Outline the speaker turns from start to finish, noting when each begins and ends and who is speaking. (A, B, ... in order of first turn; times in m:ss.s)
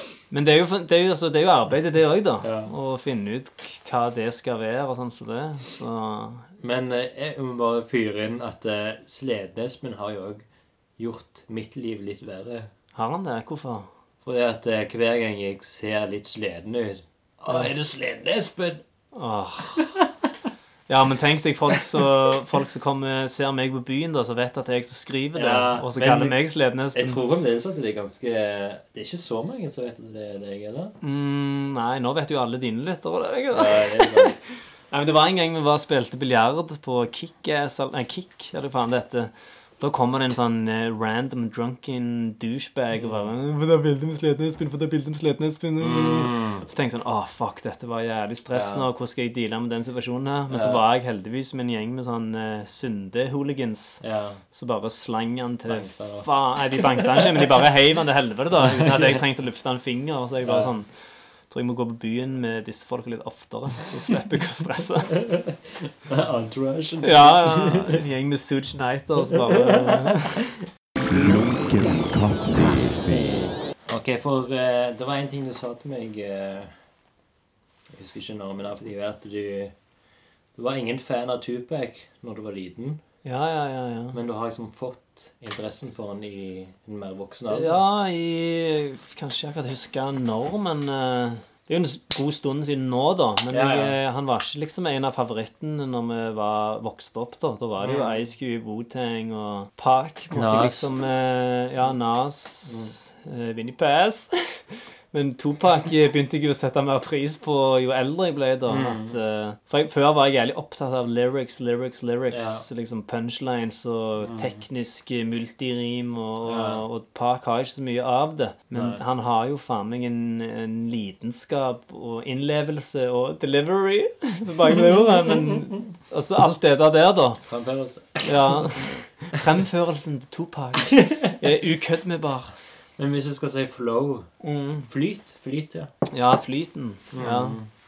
0:00.3-0:06.4 A
0:02.4-0:02.7 B
0:06.6-0:10.4 B
0:11.0-0:12.7 B
0:12.9-0:13.9 A
0:14.2-0:18.8 B
0:19.1-0:19.9 A
0:19.8-0:20.1 B
0:20.9-0:27.2 A
0:25.3-0:26.4 B
0:26.9-0:30.9 B
0:31.0-1:05.2 A
0:33.5-0:34.4 B
0:42.9-0:43.3 B
0:45.8-0:46.6 B
0:48.5-0:48.9 B
0:50.5-0:50.8 B
0:54.0-0:54.4 B
0:55.7-0:57.4 B
0:58.5-0:59.2 B
1:00.4-1:00.7 B
1:05.1-1:08.0 B
1:07.0-1:10.4 A
1:09.3-1:10.3 B
1:11.0-1:13.2 C
1:13.9-1:16.8 B
1:17.9-1:19.7 B
1:20.5-1:23.0 B
1:23.2-1:24.2 A
1:24.1-1:27.8 B
1:27.5-2:07.4 A
1:33.5-1:34.0 B
1:37.8-1:38.2 B
1:40.3-1:40.8 B
1:42.6-1:42.9 B
1:48.7-1:49.2 B
1:52.3-1:52.6 B
1:54.2-1:54.6 B
1:56.4-1:56.8 B
1:58.7-1:59.0 B
2:07.5-2:09.1 B
2:08.2-2:12.5 A
2:10.9-2:11.4 B
2:13.0-2:15.9 B
2:14.4-2:14.9 A
2:16.1-2:17.6 A
2:17.1-2:17.7 B